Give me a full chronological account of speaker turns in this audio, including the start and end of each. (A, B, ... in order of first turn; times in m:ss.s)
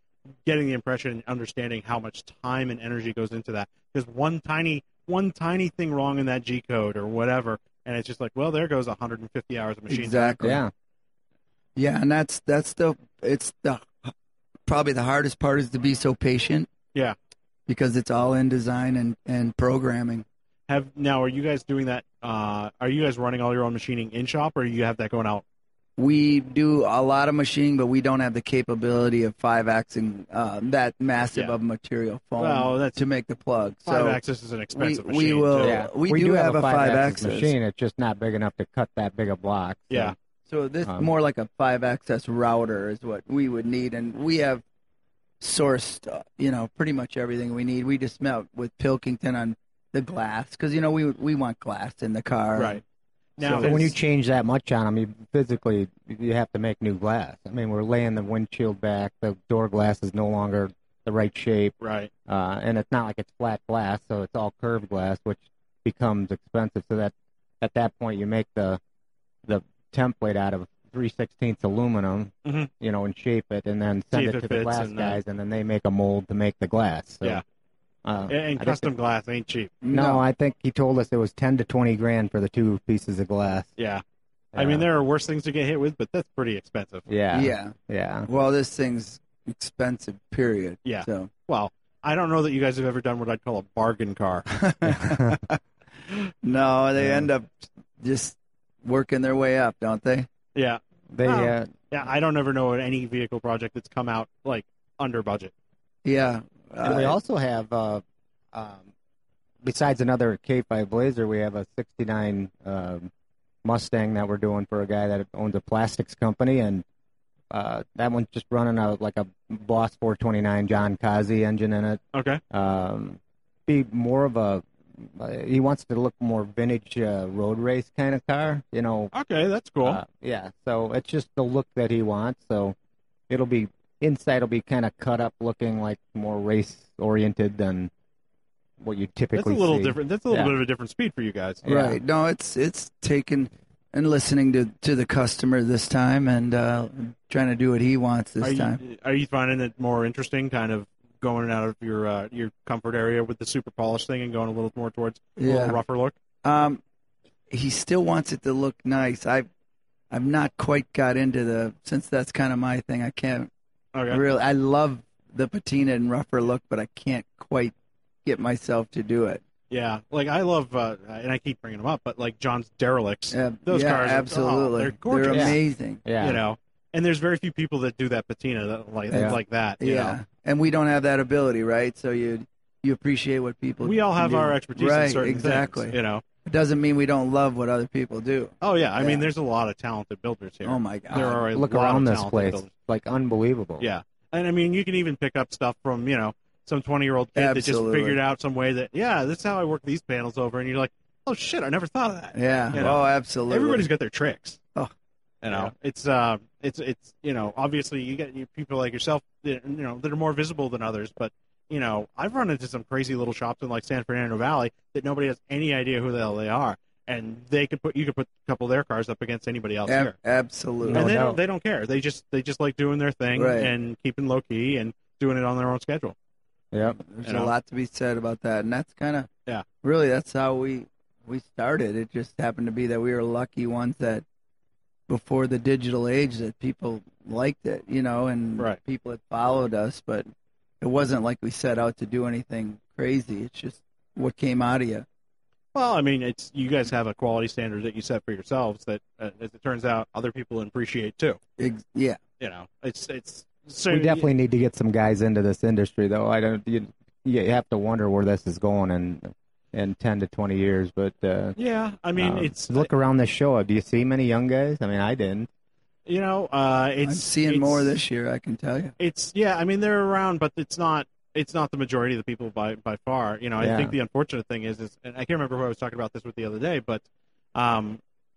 0:00.4-0:10.4 A
0:09.9-0:10.6 B
0:10.4-0:10.7 C
0:11.8-0:14.1 B
0:14.6-0:16.7 B
0:17.7-0:20.2 B
0:20.7-0:25.4 A
0:26.0-0:34.2 B
0:32.4-0:33.0 A
0:33.8-0:35.8 A
0:34.7-0:37.5 B
0:35.6-0:40.1 C
0:40.5-0:44.6 B
0:45.4-0:52.8 B
0:52.6-0:52.8 A
0:53.4-0:54.0 A
0:53.4-0:53.9 B
0:53.4-1:01.7 C
1:01.8-1:02.1 A
1:02.3-1:08.8 C
1:09.4-1:17.4 C
1:12.4-1:12.7 A
1:14.1-1:15.2 A
1:18.0-1:18.9 C
1:18.3-1:19.8 A
1:19.8-1:20.2 B
1:19.9-1:23.7 C
1:23.8-1:24.0 A
1:24.5-1:24.8 C
1:24.5-1:27.0 A
1:27.1-1:28.3 C
1:27.3-1:27.8 B
1:28.3-1:31.3 B
1:30.8-1:34.6 A
1:34.6-1:35.6 B
1:35.0-1:35.4 C
1:36.4-1:40.3 B
1:37.0-1:37.3 C
1:40.5-1:45.5 A
1:41.1-1:41.7 C
1:46.0-1:47.2 B
1:46.8-1:48.9 C
1:49.6-1:53.1 C
1:53.6-1:56.8 C
1:57.5-2:02.0 C
2:02.1-2:02.4 A
2:02.5-2:09.1 C
2:09.1-2:10.0 A
2:09.8-2:12.7 C
2:13.3-2:17.9 C
2:18.8-2:20.5 C
2:19.3-2:21.6 A
2:21.6-2:22.0 C
2:21.6-2:28.8 B
2:28.4-2:36.2 A
2:35.4-2:35.8 B
2:36.4-2:36.8 B
2:37.5-2:39.5 B
2:40.1-2:43.5 B
2:43.9-2:44.2 A
2:44.1-2:47.7 B
2:48.2-2:49.4 B
2:49.7-2:55.6 A
2:53.3-2:56.0 B
2:55.3-2:56.4 C
2:56.2-3:00.2 A
2:59.1-3:09.2 B
2:59.1-2:59.4 C
3:03.8-3:06.2 A
3:08.6-3:12.7 A
3:10.6-3:11.4 B
3:11.2-3:13.8 C
3:13.8-3:24.6 A
3:17.4-3:18.2 B
3:22.3-3:23.9 B
3:25.4-3:40.1 A
3:39.9-3:41.1 B
3:40.8-3:41.4 C
3:40.9-3:46.1 A
3:43.3-3:43.7 B
3:46.7-3:47.0 C
3:47.0-3:49.3 B
3:47.2-3:47.5 A
3:49.8-3:54.2 B
3:55.1-4:00.3 B
4:00.8-4:05.0 B
4:05.7-4:11.4 A
4:11.6-4:12.2 B
4:12.4-4:14.3 A
4:13.9-4:21.5 C
4:21.6-4:22.9 A
4:22.2-4:25.5 C
4:26.0-4:28.0 A
4:27.0-4:28.9 B
4:29.0-4:38.0 A
4:33.6-4:33.9 C